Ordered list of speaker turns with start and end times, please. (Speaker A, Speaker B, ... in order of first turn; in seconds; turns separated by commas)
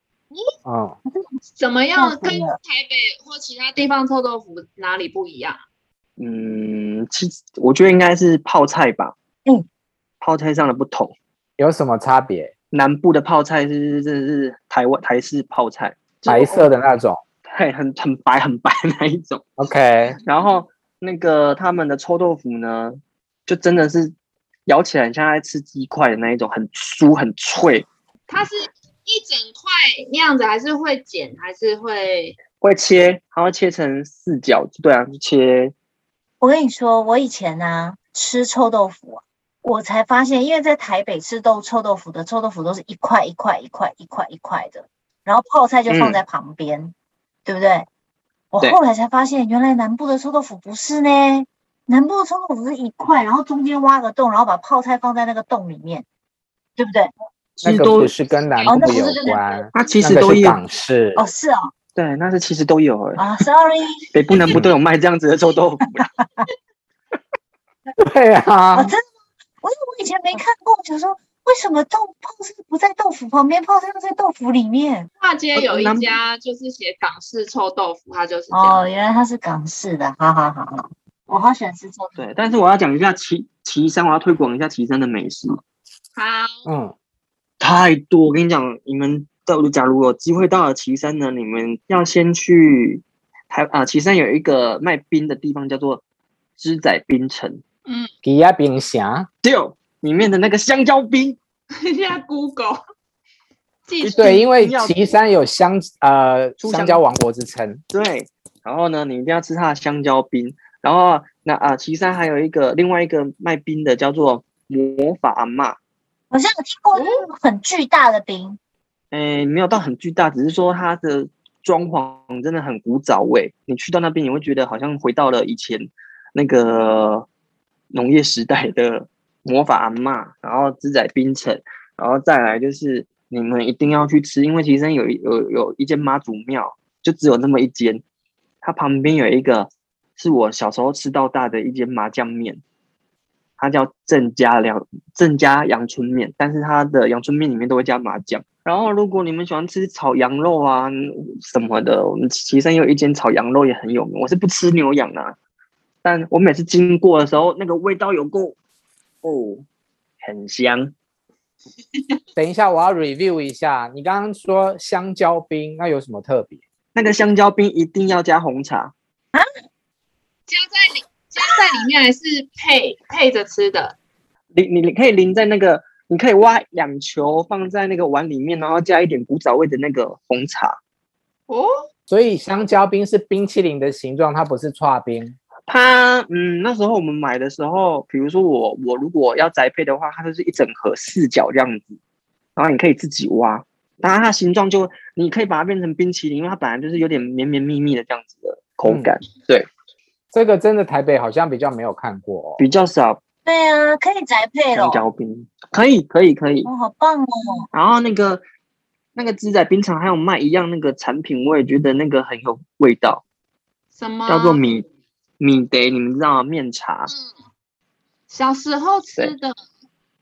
Speaker A: 0.7-1.0, Speaker B: 1.6-5.6, Speaker C: 1.9-2.6, Speaker D: 6.2-9.2, Speaker D: 10.2-11.1, Speaker A: 11.6-12.5, Speaker D: 12.7-16.7, Speaker A: 16.3-17.2, Speaker D: 17.5-19.4, Speaker A: 19.6-20.2, Speaker D: 20.2-24.1, Speaker D: 24.7-27.9, Speaker B: 28.3-32.4, Speaker D: 32.6-35.7, Speaker C: 36.4-46.9, Speaker D: 45.9-46.2, Speaker C: 47.5-47.9, Speaker C: 48.5-56.1, Speaker C: 56.8-57.1, Speaker D: 57.6-58.1, Speaker A: 57.6-61.3, Speaker B: 58.3-59.9, Speaker C: 58.7-59.4, Speaker D: 59.7-60.6, Speaker C: 61.2-61.7, Speaker D: 62.0-63.5, Speaker C: 63.2-64.6, Speaker D: 64.1-66.0, Speaker C: 66.0-66.5, Speaker A: 68.0-68.9, Speaker C: 68.7-69.0, Speaker C: 69.6-75.1, Speaker B: 75.2-78.8, Speaker D: 75.5-76.1, Speaker C: 78.5-82.2, Speaker D: 82.2-85.6, Speaker B: 86.2-86.6, Speaker A: 86.7-86.9, Speaker D: 87.6-96.0, Speaker D: 96.6-97.6, Speaker A: 98.2-99.3, Speaker D: 99.4-101.4, Speaker B: 101.8-102.8, Speaker B: 103.9-104.5, Speaker D: 104.0-105.1, Speaker A: 104.2-107.8, Speaker D: 106.6-107.0, Speaker D: 107.9-115.8, Speaker C: 116.3-118.6, Speaker B: 117.0-117.2, Speaker D: 119.1-127.3, Speaker D: 127.9-138.0, Speaker D: 138.6-142.6, Speaker D: 143.6-155.3, Speaker D: 156.0-158.6, Speaker D: 159.2-159.7, Speaker D: 160.2-160.9, Speaker A: 162.4-166.6, Speaker D: 166.9-168.9, Speaker B: 170.5-174.0, Speaker D: 174.6-180.8, Speaker B: 181.5-181.8, Speaker A: 182.1-185.4, Speaker D: 185.7-192.0, Speaker D: 192.6-199.7, Speaker A: 200.3-202.6, Speaker D: 202.6-203.2, Speaker C: 203.5-205.1, Speaker D: 204.7-206.7, Speaker C: 206.7-207.7, Speaker D: 207.7-208.4, Speaker D: 209.2-213.2, Speaker B: 213.9-214.6, Speaker D: 214.3-214.8, Speaker D: 215.4-217.1, Speaker B: 217.1-217.3, Speaker B: 218.3-219.6